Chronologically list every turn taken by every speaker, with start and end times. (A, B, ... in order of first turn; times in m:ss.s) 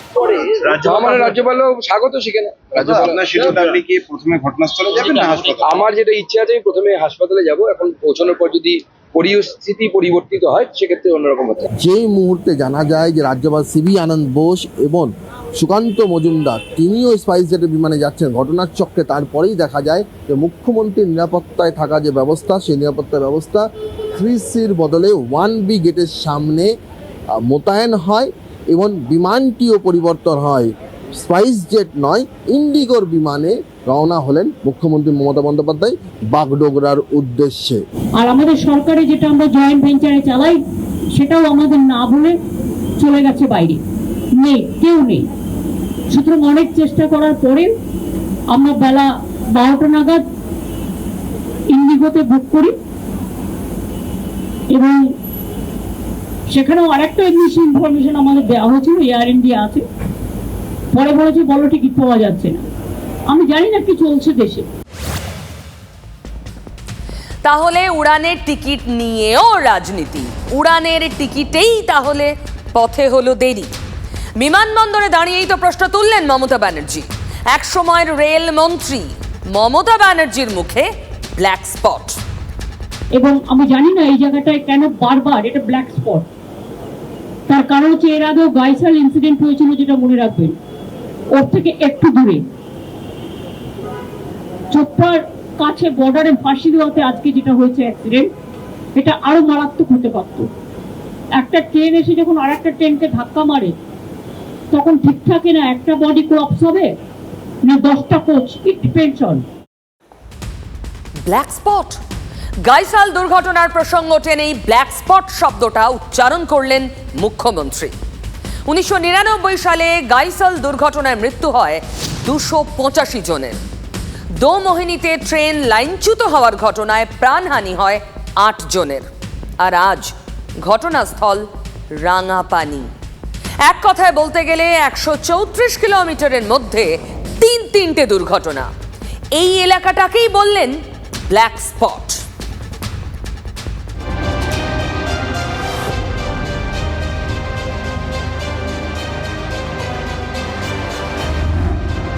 0:00.2-0:01.4 A
0:00.2-0:03.8 B
0:02.7-0:05.8 A
0:04.9-0:11.7 B
0:11.8-0:26.7 C
0:27.3-0:37.8 C
0:38.2-0:40.6 D
0:41.1-0:42.4 D
0:43.0-0:43.8 D
0:44.4-0:45.3 D
0:46.1-0:47.7 D
0:48.5-0:50.2 D
0:51.7-0:52.7 D
0:54.7-0:55.1 D
0:56.5-0:59.8 D
1:00.9-1:02.6 D
1:03.3-1:04.7 D
1:07.4-1:13.7 E
1:14.4-1:22.2 E
1:23.2-1:26.3 D
1:27.5-1:30.6 D
1:31.3-1:32.4 D
1:34.7-1:38.3 D
1:39.0-1:40.5 D
1:41.4-1:43.7 D
1:44.7-1:46.9 D
1:47.6-1:49.4 D
1:51.2-1:52.0 E
1:52.6-1:57.9 E
1:58.7-2:03.6 E
2:04.3-2:09.0 E
2:09.6-2:10.1 E
2:10.6-2:12.9 E
2:13.6-2:18.7 E
2:19.3-2:20.8 E
2:21.3-2:22.2 E